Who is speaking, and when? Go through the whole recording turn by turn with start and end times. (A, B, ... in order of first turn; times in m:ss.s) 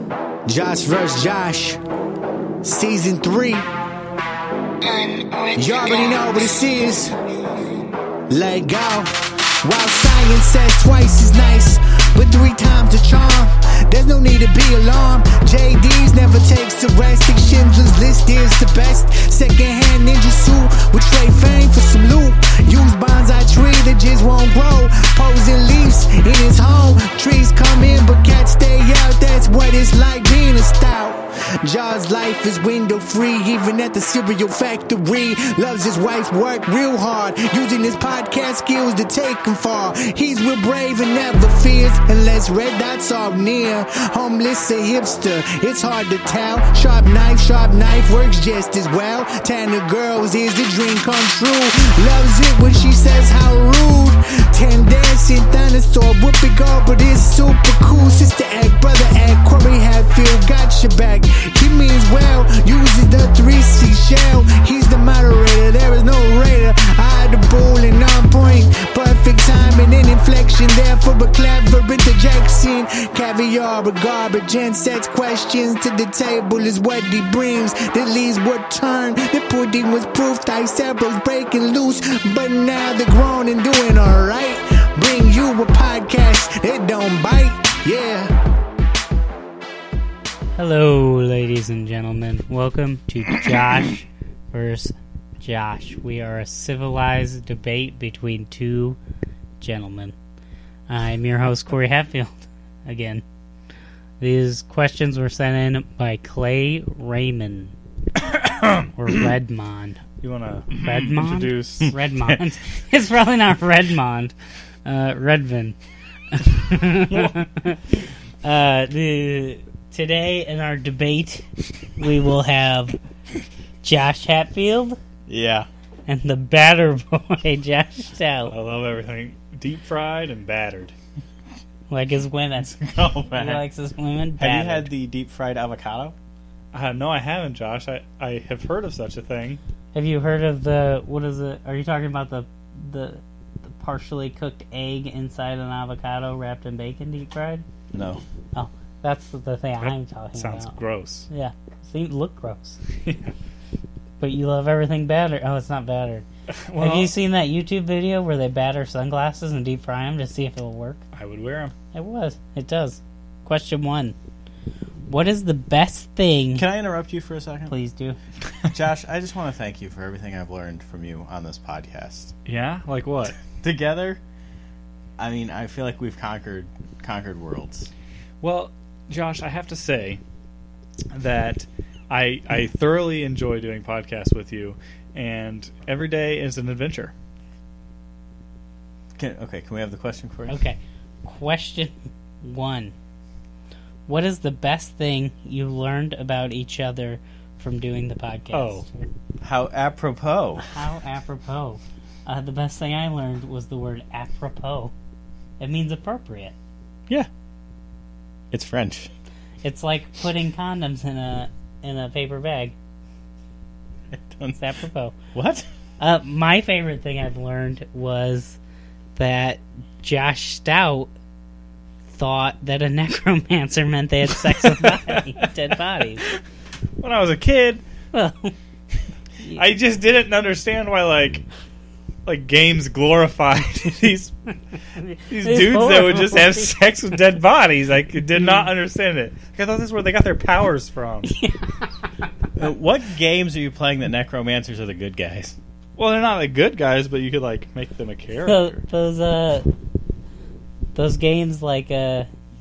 0:00.4-0:01.8 A
0:02.6-0:03.7 A
0:05.5-0:07.1 A
0:08.3-1:28.3 A
1:30.6-1:39.0 B
1:39.6-1:40.1 B
1:40.9-1:43.2 B
1:44.2-1:47.7 B
1:48.2-1:48.9 C
1:48.9-1:50.0 B
1:50.2-1:52.4 C
1:50.7-1:54.3 B
1:54.8-1:55.8 B
1:56.3-2:01.4 B
2:02.0-2:03.0 B
2:03.8-2:05.0 B
2:05.3-2:05.7 D
2:06.1-2:08.5 B
2:08.5-2:10.9 C
2:11.9-2:12.8 B
2:12.6-2:13.6 D
2:13.3-2:14.9 B
2:14.4-2:16.2 D
2:16.7-2:19.6 C
2:19.9-2:27.6 B
2:27.9-2:28.2 D
2:28.5-2:30.8 B
2:29.8-2:31.3 C
2:31.3-2:32.8 B
2:33.0-2:33.3 C
2:34.2-2:36.2 B
2:36.5-2:37.1 C
2:36.8-2:41.0 B
2:41.1-2:41.7 C
2:41.9-2:44.1 B
2:45.0-2:46.6 B
2:46.5-2:47.7 D
2:47.7-2:48.2 B
2:48.7-2:52.3 D
2:52.4-2:53.4 C
2:53.4-2:54.2 D
2:55.2-2:57.9 D
2:58.4-3:00.2 C
3:01.1-3:07.1 C
3:09.2-3:10.6 D
3:10.5-3:12.9 B
3:14.1-3:19.1 B
3:18.5-3:18.9 C
3:19.4-3:20.6 D
3:20.7-3:24.9 B
3:25.6-3:26.5 B
3:28.5-3:29.1 D
3:29.6-3:32.7 B
3:34.1-3:34.6 D
3:34.6-3:35.1 B
3:35.3-3:35.6 D
3:36.0-3:38.6 B
3:39.2-3:41.1 B
3:42.1-3:46.2 B
3:44.6-3:45.4 C
3:47.0-3:47.8 C
3:48.1-3:48.5 B
3:49.4-3:49.7 B
3:49.5-3:51.4 C
3:52.2-3:54.3 C
3:55.0-3:56.8 B
3:55.3-4:01.3 C
4:01.2-4:02.1 B
4:02.6-4:05.6 D
4:06.0-4:08.8 C
4:08.4-4:09.7 B
4:10.9-4:12.3 B